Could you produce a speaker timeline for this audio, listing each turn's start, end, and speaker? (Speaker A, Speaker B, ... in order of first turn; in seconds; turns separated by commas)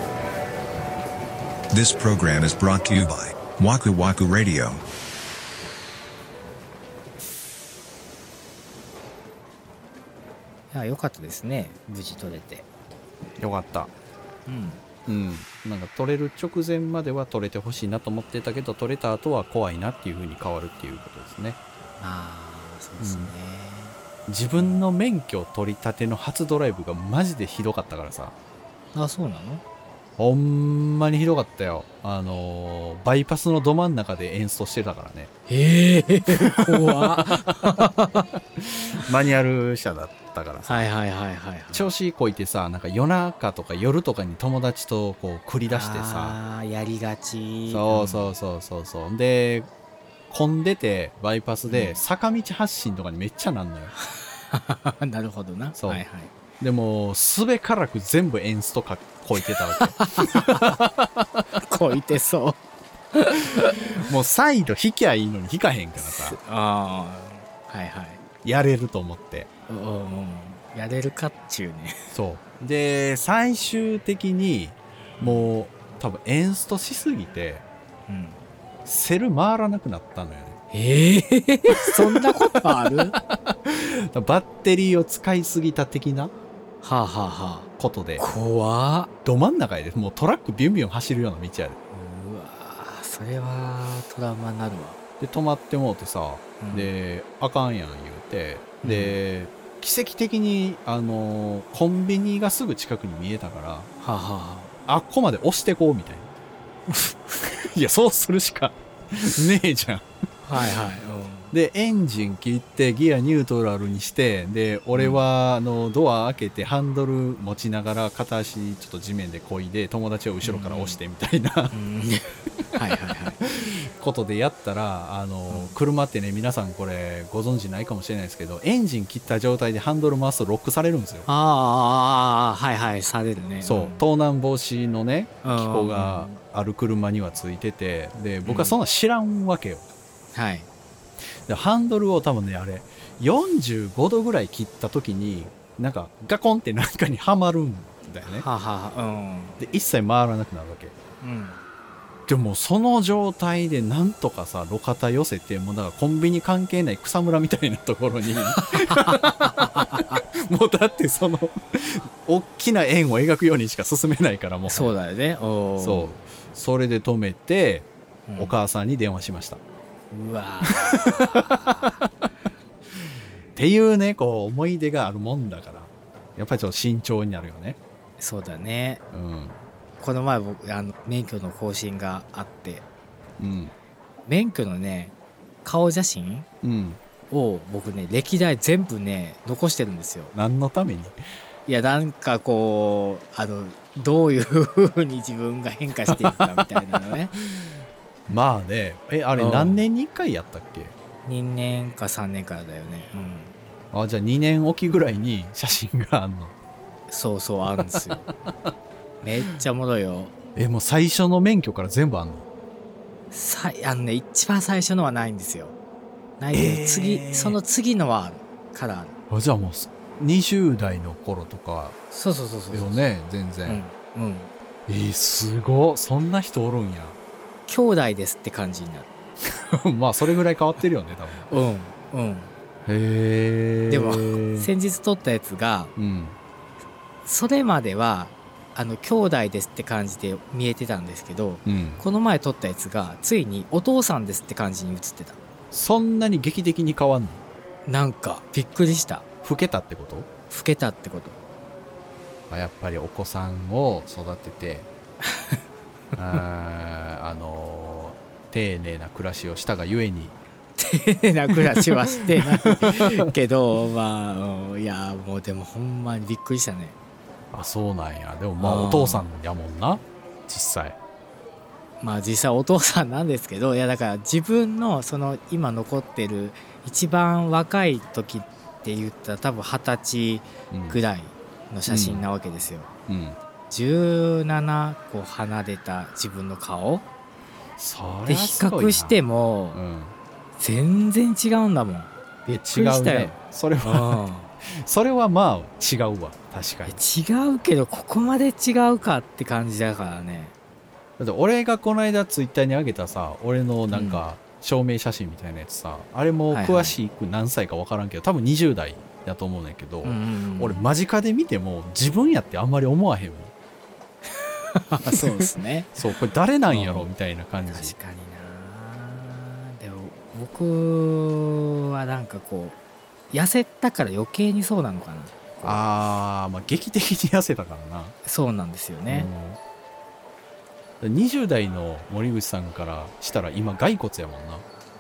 Speaker A: 1.7-4.8, Speaker B: 10.7-12.7, Speaker C: 13.4-13.9, Speaker B: 14.5-14.8, Speaker C: 15.1-21.6, Speaker B: 22.0-24.0, Speaker C: 23.0-23.3, Speaker C: 24.3-28.4, Speaker B: 24.6-24.8, Speaker B: 28.9-29.6, Speaker C: 30.2-35.3, Speaker B: 35.5-38.2, Speaker C: 36.4-37.6, Speaker C: 38.6-40.9, Speaker B: 40.6-41.9, Speaker C: 41.7-46.4, Speaker B: 45.7-48.3, Speaker C: 47.7-49.7, Speaker C: 50.3-53.9, Speaker B: 51.7-52.0, Speaker B: 54.0-56.3, Speaker C: 55.8-56.0, Speaker C: 56.6-61.4, Speaker B: 59.4-60.8, Speaker B: 61.7-62.6, Speaker B: 63.1-64.0, Speaker C: 64.0-66.4, Speaker B: 66.0-68.2, Speaker C: 68.4-69.5, Speaker B: 69.7-72.0, Speaker C: 72.1-77.7, Speaker B: 75.2-75.5, Speaker B: 78.1-78.4, Speaker C: 78.8-80.6, Speaker B: 80.7-83.2, Speaker C: 81.7-82.3, Speaker C: 82.9-86.3, Speaker B: 86.8-89.1, Speaker C: 87.8-88.2, Speaker C: 89.2-91.8, Speaker B: 91.9-95.0, Speaker C: 95.2-103.9, Speaker B: 96.6-96.9, Speaker B: 98.8-99.2, Speaker B: 104.0-104.7, Speaker C: 104.9-106.3, Speaker C: 107.4-110.1, Speaker B: 110.4-111.5, Speaker C: 111.5-121.7, Speaker B: 114.9-115.2, Speaker B: 120.4-121.0, Speaker B: 121.7-123.4, Speaker C: 123.4-131.3, Speaker B: 125.5-125.8, Speaker B: 131.3-134.1, Speaker C: 133.6-139.8, Speaker B: 135.4-136.4, Speaker B: 138.4-138.8, Speaker B: 140.3-140.7, Speaker C: 141.5-148.5, Speaker B: 148.2-149.6, Speaker C: 149.6-150.9, Speaker B: 151.2-151.6, Speaker C: 152.3-164.9, Speaker B: 158.6-160.2, Speaker B: 164.7-166.2, Speaker C: 165.8-169.6, Speaker B: 168.3-168.6, Speaker B: 170.1-172.0, Speaker C: 170.7-172.0, Speaker C: 173.6-177.8, Speaker B: 178.2-179.0, Speaker C: 179.1-179.6, Speaker B: 180.0-182.8, Speaker C: 183.4-183.7, Speaker B: 184.2-186.5, Speaker C: 186.6-187.0, Speaker B: 187.3-190.3, Speaker C: 190.3-191.2, Speaker B: 191.7-197.3, Speaker C: 196.1-196.5, Speaker C: 198.3-200.9, Speaker B: 199.3-199.8, Speaker B: 201.2-203.5, Speaker C: 203.9-206.5, Speaker B: 207.1-208.3, Speaker C: 207.9-208.7, Speaker B: 209.2-210.3, Speaker C: 210.6-212.4, Speaker B: 213.3-215.8, Speaker B: 216.4-219.2, Speaker C: 216.5-217.6, Speaker C: 219.3-222.0, Speaker B: 222.1-223.1, Speaker C: 222.7-223.8, Speaker B: 223.7-224.5, Speaker C: 224.9-227.2, Speaker B: 227.7-229.1, Speaker C: 229.4-231.5, Speaker B: 231.5-232.5, Speaker C: 232.8-234.7, Speaker B: 233.9-235.9, Speaker C: 236.0-236.4, Speaker B: 237.2-245.4, Speaker C: 241.7-242.0, Speaker C: 245.7-247.4, Speaker B: 247.9-249.2, Speaker C: 249.4-250.3, Speaker B: 250.5-251.4, Speaker C: 252.5-254.9, Speaker B: 255.3-255.6, Speaker C: 256.2-260.4, Speaker B: 260.8-267.0, Speaker C: 261.5-263.3, Speaker C: 267.5-271.0, Speaker B: 268.6-269.3, Speaker B: 272.0-282.9, Speaker C: 280.7-281.0, Speaker C: 281.9-282.3, Speaker C: 283.1-283.4, Speaker B: 283.7-287.1, Speaker C: 287.8-289.2, Speaker B: 288.3-289.8, Speaker C: 289.7-290.2, Speaker B: 290.6-294.5, Speaker C: 292.6-297.0, Speaker B: 296.9-300.5, Speaker C: 301.2-313.5, Speaker B: 303.9-304.2, Speaker B: 306.5-307.0, Speaker B: 310.0-310.9, Speaker B: 314.3-315.9, Speaker C: 315.1-315.4, Speaker C: 316.0-318.0, Speaker B: 316.7-317.1, Speaker B: 317.7-322.8, Speaker B: 323.3-325.7, Speaker C: 325.6-328.1, Speaker B: 328.2-329.3, Speaker C: 329.1-329.6, Speaker C: 331.0-334.6